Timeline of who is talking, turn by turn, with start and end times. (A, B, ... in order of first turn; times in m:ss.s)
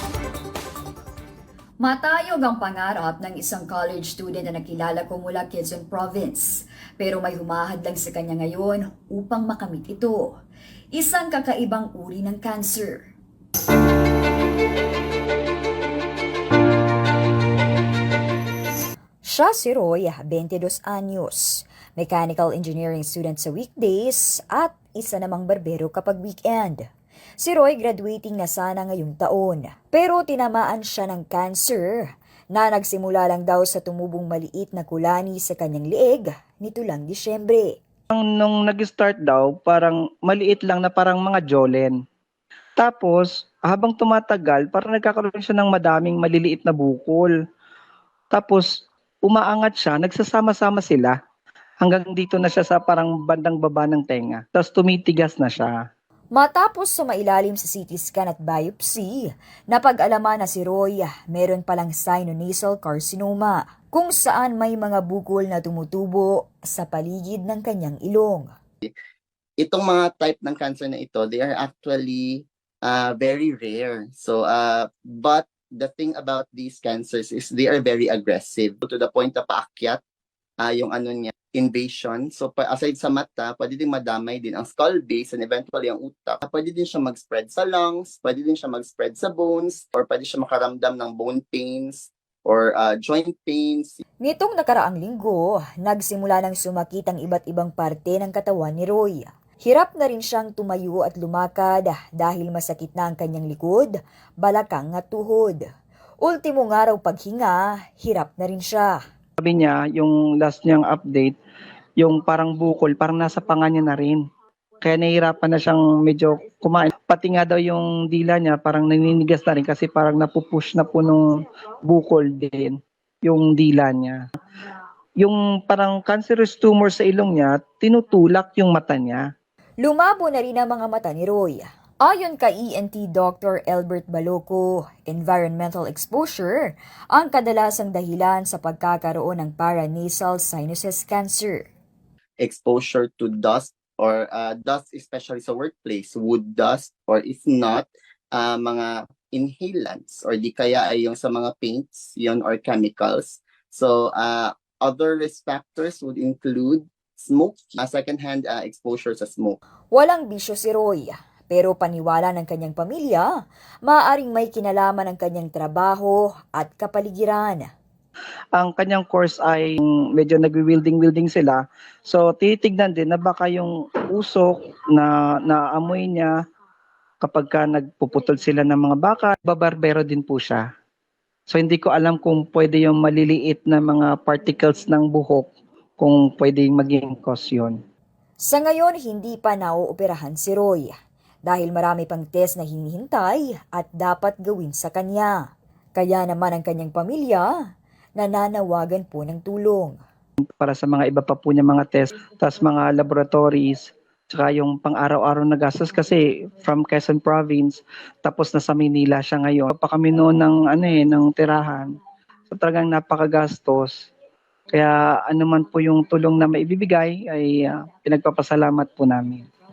0:01.8-0:10.3 A
0:10.9-0:13.1 A
0:19.2-0:26.8 A
0:27.4-0:37.8 A
0:38.1-0:42.0 B
0:42.8-0:47.3 B
0:48.3-0:48.7 B
0:49.2-0:51.2 B
0:51.8-0:55.8 B
0:56.4-1:08.5 A
1:09.6-1:20.0 C
1:20.6-1:34.0 C
1:34.2-1:45.6 A
1:46.2-1:49.0 A
1:49.4-1:51.4 B
1:52.0-1:54.2 B
1:54.8-2:01.2 B
2:01.8-2:04.2 B
2:05.2-2:09.2 B
2:09.8-2:21.7 A
2:22.4-2:39.6 C
2:39.9-2:43.3 A
2:43.8-2:47.7 A
2:48.6-2:56.3 B
2:57.2-3:00.7 B
3:01.5-3:07.8 B
3:08.4-3:10.9 A
3:11.5-3:15.4 A
3:16.0-3:17.6 A
3:18.2-3:20.0 A
3:20.6-3:31.9 B
3:32.5-3:34.1 B
3:34.7-3:39.4 B